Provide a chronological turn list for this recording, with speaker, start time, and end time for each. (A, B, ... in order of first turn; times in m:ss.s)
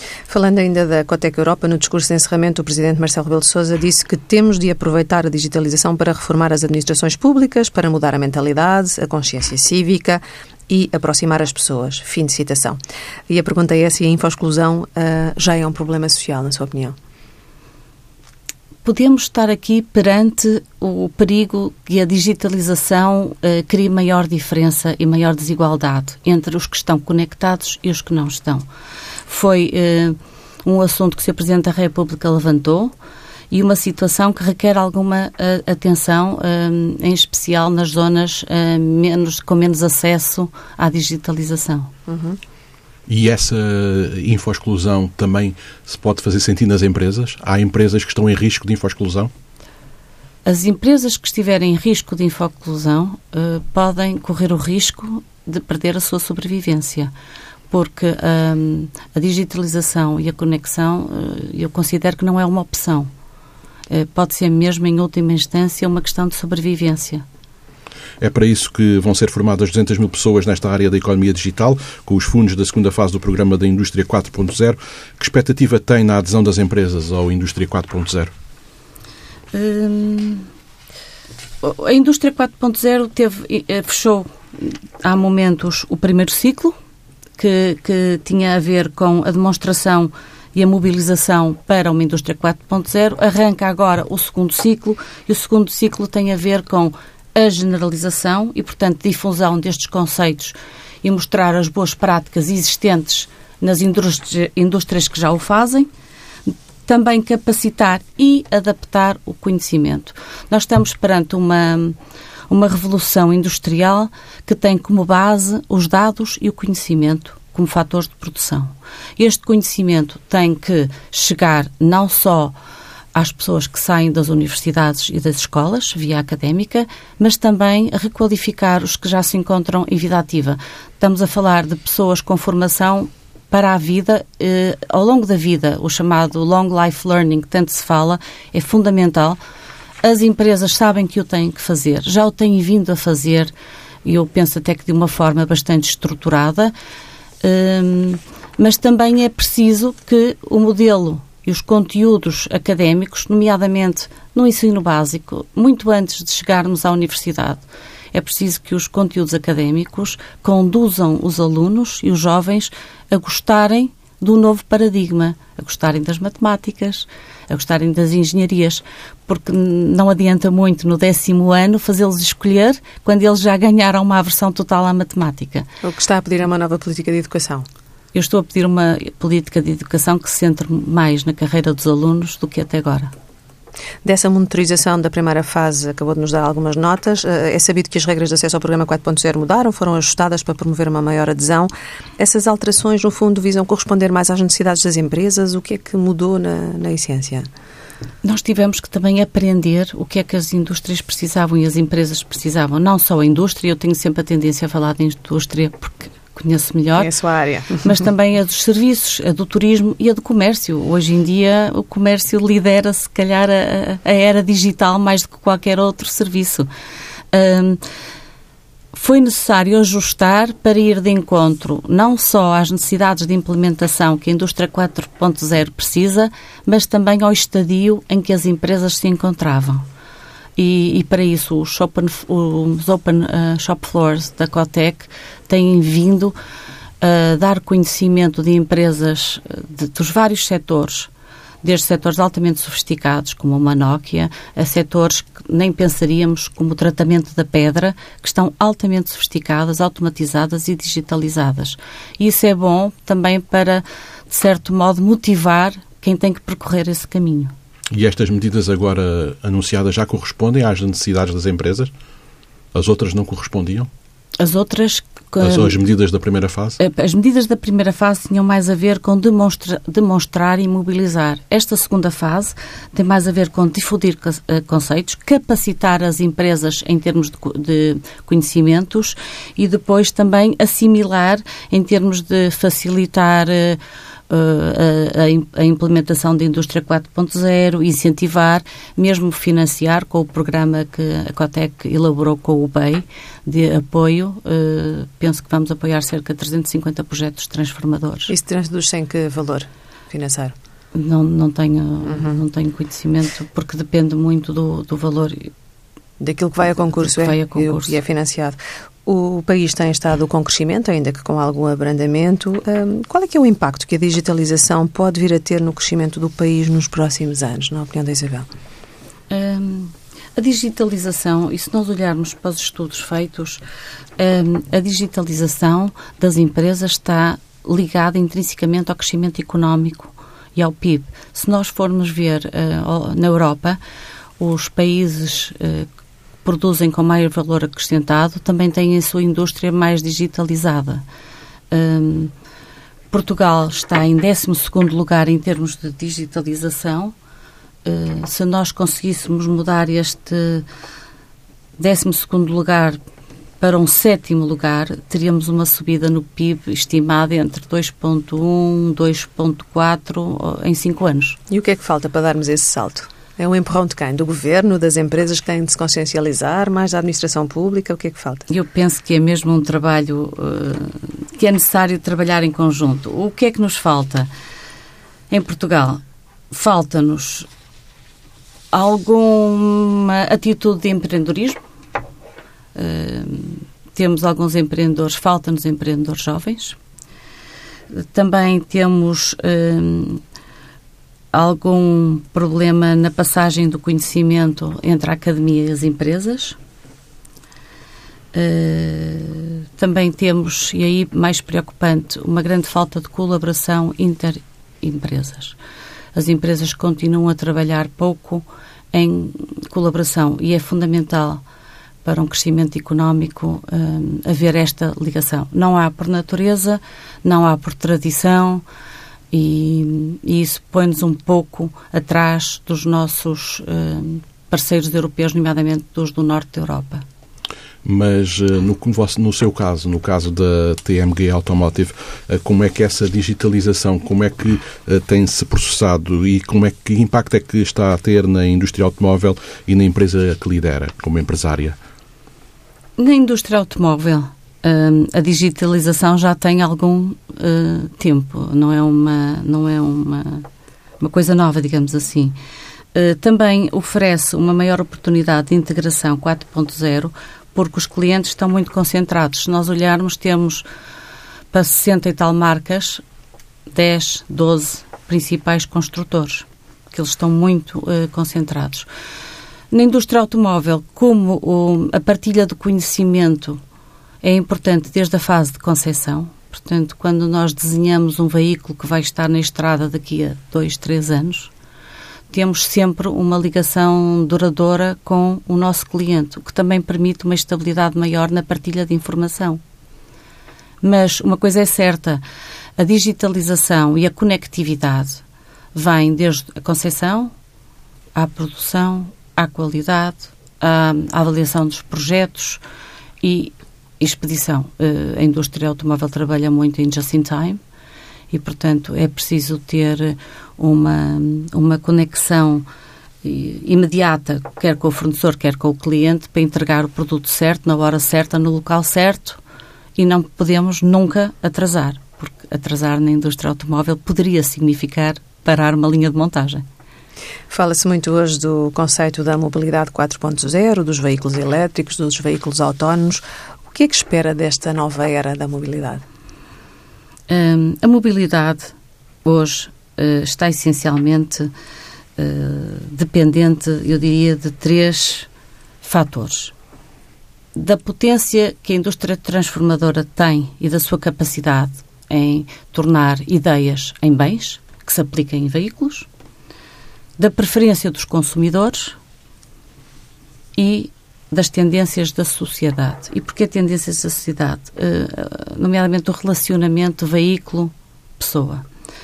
0:00.3-0:17.0 A
0:18.8-0:28.6 B
0:29.3-0:32.9 B
0:33.5-0:41.9 B
0:42.1-0:42.4 A
0:43.1-0:49.3 C
0:50.4-0:57.1 B
0:57.7-1:03.1 B
1:03.9-1:07.2 B
1:08.2-1:18.3 C
1:19.5-1:20.5 B
1:21.6-1:26.8 B
1:27.4-1:45.9 B
1:46.5-1:52.0 B
1:52.5-2:02.5 B
2:03.1-2:19.4 B
2:20.0-2:23.5 B
2:24.0-2:26.7 B
2:27.4-2:55.7 B
2:55.8-2:57.6 A
2:58.1-3:03.1 B
3:04.0-3:17.5 A
3:18.2-3:27.1 B
3:27.0-3:27.9 A
3:27.8-3:36.7 B
3:37.3-3:37.8 B
3:38.9-3:49.8 B
3:50.6-3:56.3 B
3:57.0-4:01.1 B
4:01.6-4:17.5 B
4:17.9-4:21.9 C
4:22.7-4:23.9 C
4:24.4-4:25.8 B
4:25.4-4:26.8 C
4:26.8-4:58.3 B
4:58.3-5:00.5 A
5:00.9-5:05.5 B
5:02.1-5:02.4 A
5:06.2-5:18.5 A
5:07.0-5:08.0 B
5:19.3-5:23.6 B
5:24.2-5:33.8 B
5:34.4-5:35.9 B
5:36.4-5:41.0 B
5:41.7-5:42.3 B
5:43.1-5:47.1 B
5:47.8-5:50.6 B
5:51.8-5:53.0 B
5:53.6-6:01.4 B
6:01.5-6:08.5 A
6:08.5-6:14.3 B
6:15.3-6:17.5 B
6:18.7-6:21.6 B
6:22.7-6:26.8 B
6:27.9-6:30.2 B
6:31.3-6:36.6 B
6:38.3-6:45.6 B
6:46.1-6:51.4 B
6:52.0-6:58.6 B
6:59.3-7:07.0 B
7:07.8-7:21.8 C
7:23.0-7:30.4 B
7:31.0-7:32.4 B
7:32.9-7:40.6 B
7:41.5-7:43.0 B
7:43.7-7:48.9 B
7:49.7-7:53.6 B
7:54.2-8:01.5 B
8:02.3-8:09.6 B
8:10.8-8:12.2 B
8:12.8-8:15.2 B
8:15.7-8:17.3 B
8:18.1-8:22.6 B
8:23.2-8:27.6 B
8:28.3-8:32.6 B
8:33.2-8:39.4 B
8:40.0-8:46.6 B
8:47.5-8:56.0 A
8:57.3-9:01.5 B
9:02.2-9:05.3 B
9:05.8-9:06.5 B
9:07.5-9:16.1 B
9:17.2-9:19.0 B
9:20.6-9:28.6 B